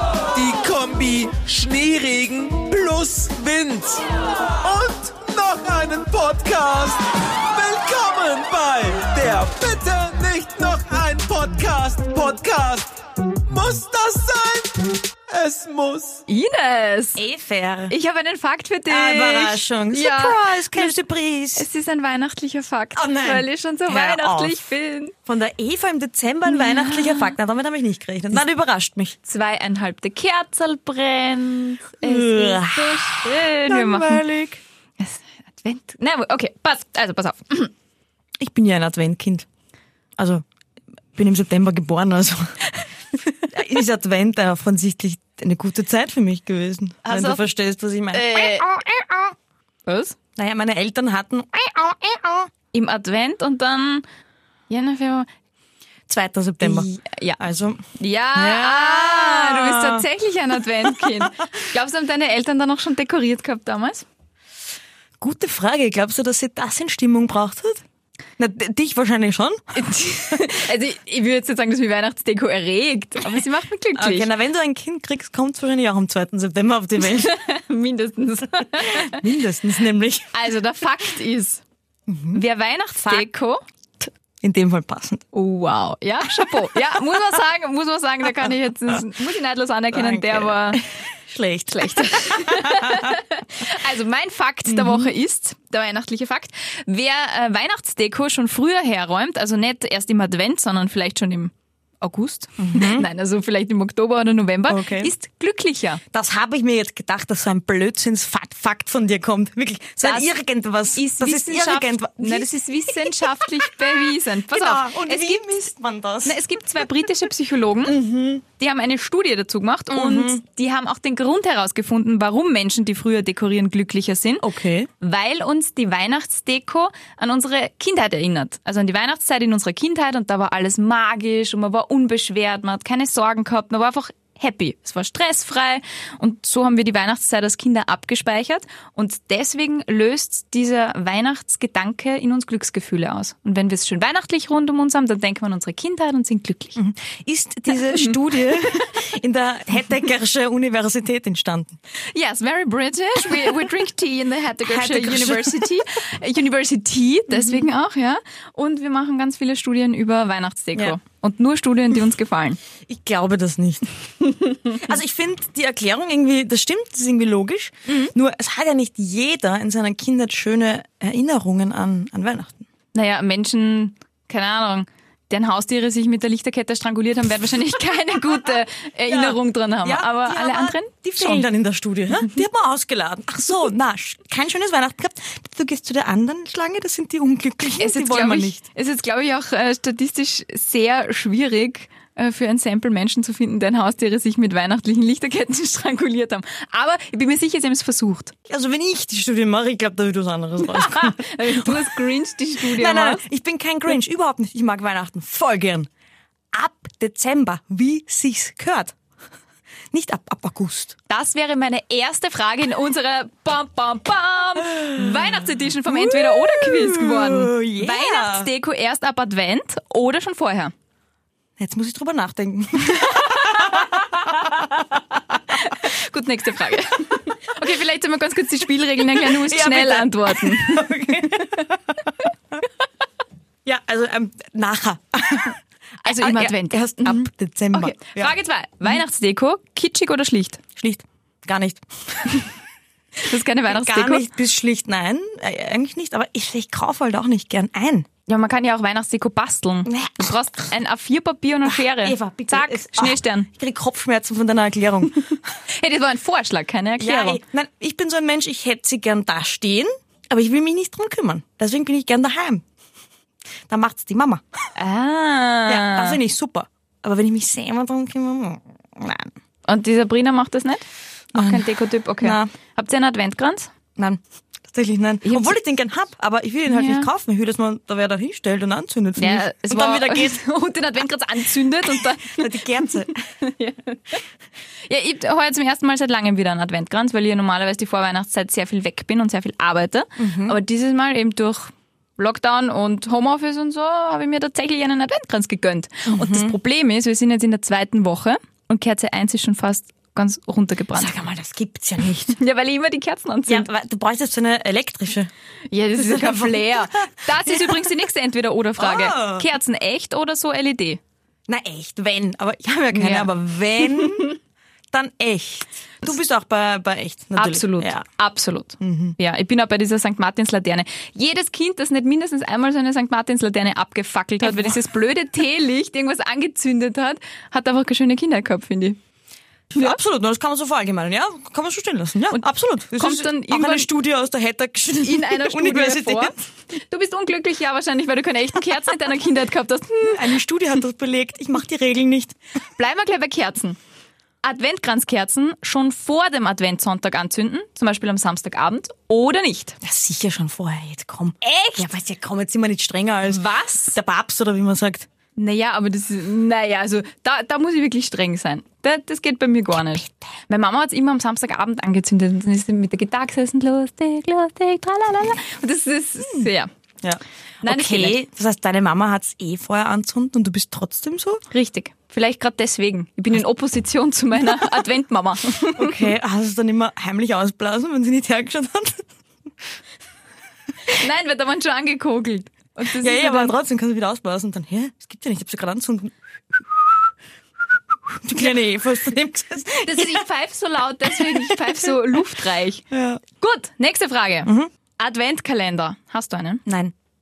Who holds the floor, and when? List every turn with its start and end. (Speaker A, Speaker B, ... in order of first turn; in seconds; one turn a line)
Speaker A: 0.3-16.2
Speaker B: 16.3-17.2
Speaker C: 17.2-17.9
Speaker B: 17.9-20.9
Speaker C: 18.9-21.7
Speaker B: 21.6-25.1
Speaker C: 22.9-24.7
Speaker C: 25.3-29.2
Speaker B: 26.5-27.3
Speaker B: 29.2-34.2
Speaker C: 32.0-34.6
Speaker B: 35.0-37.7
Speaker C: 38.4-39.5
Speaker C: 40.2-40.4
Speaker C: 41.1-42.6
Speaker C: 43.1-49.3
Speaker B: 47.0-47.5
Speaker B: 48.1-48.7
Speaker B: 49.9-50.2
Speaker C: 50.4-52.5
Speaker B: 52.7-54.0
Speaker B: 54.7-55.3
Speaker C: 56.1-56.9
Speaker B: 56.6-57.4
Speaker C: 57.4-57.8
Speaker B: 58.0-64.1
Speaker C: 58.3-60.1
Speaker C: 65.2-67.8
Speaker C: 68.4-70.5
Speaker B: 69.7-74.3
Speaker C: 74.0-77.3
Speaker B: 77.0-79.2
Speaker C: 78.8-80.3
Speaker B: 80.3-81.6
Speaker C: 82.1-82.4
Speaker B: 82.3-83.6
Speaker C: 84.4-85.2
Speaker B: 85.3-90.8
Speaker C: 89.9-93.2
Speaker B: 91.7-106.0
Speaker C: 94.7-95.1
Speaker C: 102.6-103.1
Speaker C: 104.7-105.1
Speaker C: 106.1-116.9
Speaker B: 110.0-110.3
Speaker B: 111.0-115.7
Speaker B: 116.2-118.0
Speaker C: 117.8-118.4
Speaker B: 118.6-124.5
Speaker C: 119.9-120.4
Speaker C: 124.4-124.9
Speaker B: 125.0-146.8
Speaker C: 146.8-151.8
Speaker B: 152.1-162.6
Speaker C: 154.7-155.8
Speaker C: 157.3-157.7
Speaker C: 162.9-163.9
Speaker B: 164.4-164.8
Speaker C: 164.7-172.6
Speaker B: 172.9-181.4
Speaker C: 179.1-188.6
Speaker B: 187.8-198.3
Speaker C: 198.5-202.0
Speaker B: 200.6-203.2
Speaker C: 202.6-205.9
Speaker C: 206.5-208.9
Speaker C: 209.9-211.0
Speaker B: 211.1-220.7
Speaker C: 214.6-218.5
Speaker C: 221.6-225.2
Speaker B: 222.9-224.8
Speaker B: 225.5-231.7
Speaker C: 229.2-232.1
Speaker C: 233.7-238.3
Speaker B: 236.0-240.6
Speaker C: 240.8-242.3
Speaker B: 243.2-244.2
Speaker C: 243.7-248.1
Speaker B: 248.3-253.5
Speaker C: 249.9-250.3
Speaker C: 251.7-255.3
Speaker B: 255.7-257.4
Speaker C: 257.0-262.6
Speaker C: 263.7-264.4
Speaker B: 264.8-266.2
Speaker C: 265.7-269.3
Speaker B: 269.7-273.7
Speaker C: 271.3-271.7
Speaker C: 272.2-272.5
Speaker C: 274.0-280.4
Speaker B: 275.2-275.5
Speaker B: 276.7-277.1
Speaker B: 279.2-284.2
Speaker C: 282.2-283.2
Speaker B: 284.9-301.1
Speaker C: 290.2-290.6
Speaker C: 296.1-296.6
Speaker C: 300.9-302.4
Speaker B: 302.3-303.7
Speaker C: 303.5-305.3
Speaker B: 305.7-311.0
Speaker C: 306.0-307.9
Speaker C: 308.8-309.5
Speaker C: 311.5-314.4
Speaker B: 312.9-314.3
Speaker C: 314.9-318.1
Speaker B: 317.4-329.0
Speaker C: 318.8-319.2
Speaker C: 324.4-324.8
Speaker C: 329.7-336.4
Speaker B: 332.3-333.9
Speaker B: 335.0-340.3
Speaker C: 340.0-342.4
Speaker B: 342.8-343.8
Speaker B: 344.4-349.8
Speaker C: 349.8-355.1
Speaker B: 351.5-351.9
Speaker B: 353.3-354.0
Speaker B: 355.4-366.7
Speaker C: 366.2-366.5
Speaker C: 367.0-371.4
Speaker B: 367.6-368.2
Speaker B: 371.5-376.1
Speaker C: 375.8-379.1
Speaker B: 380.9-383.6
Speaker C: 383.0-387.1
Speaker C: 388.1-390.2
Speaker B: 389.8-392.9
Speaker C: 391.1-392.2
Speaker C: 392.9-393.2
Speaker B: 393.4-396.6
Speaker C: 394.5-394.7
Speaker C: 396.7-396.9